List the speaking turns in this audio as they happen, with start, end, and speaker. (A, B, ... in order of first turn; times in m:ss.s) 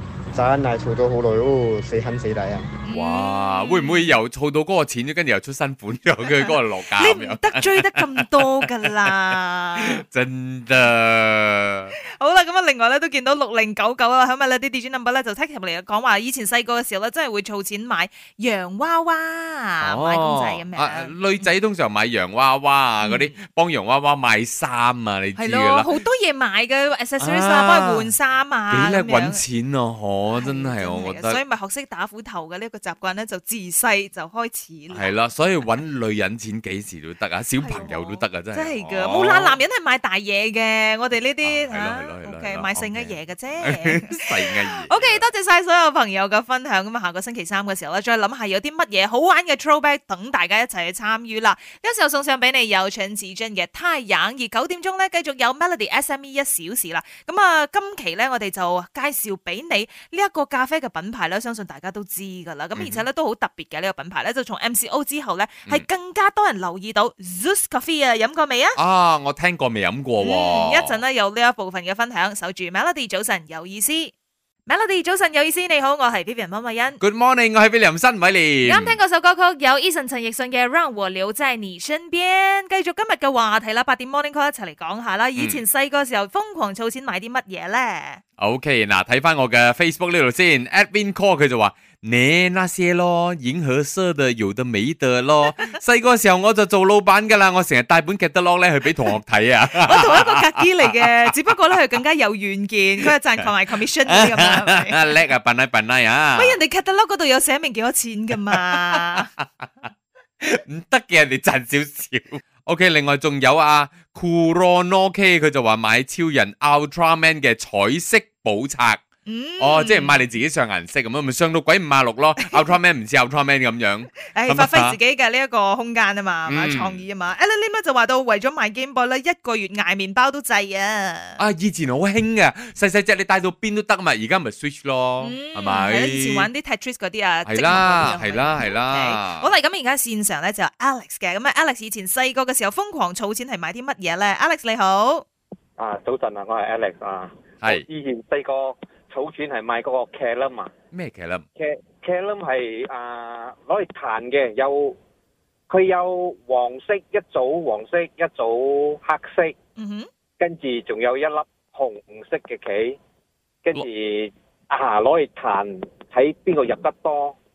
0:00.3-0:02.6 A
0:02.8-0:04.2 B
0:02.9-0:08.6 C
0:06.3-0:10.0 B
0:09.8-0:11.9 C
0:12.0-0:21.5 B
0:19.8-0:25.9 C
0:23.0-0:23.4 B
0:25.4-0:29.4 B
0:27.2-0:28.1 C
0:28.7-0:31.4 C
0:30.3-0:35.1 B
0:34.9-0:39.6 C
0:37.6-1:08.8 B
0:41.4-0:45.3 C
1:02.8-1:03.0 C
1:08.8-1:11.0 C
1:10.2-1:14.1 B
1:14.7-1:17.0 B
1:17.0-1:19.0 C
1:18.7-1:28.2 B
1:25.4-1:25.6 C
1:28.4-1:41.1 C
1:39.8-1:45.2 B
1:44.1-1:46.6 C
1:46.4-1:49.3 B
1:50.4-1:59.0 C
1:59.3-2:00.2 B
1:59.6-2:05.0 C
2:02.4-2:02.7 B
2:04.3-2:11.4 B
2:06.5-2:07.0 C
2:11.4-2:16.5 C
2:15.2-2:25.2 B
2:17.5-2:19.5 C
2:25.8-2:30.7 D
2:27.6-2:27.9 C
2:30.9-2:31.4 C
2:31.6-2:35.0 D
2:35.7-2:39.6 D
2:39.8-2:40.1 B
2:40.4-2:43.0 D
2:43.6-2:47.4 D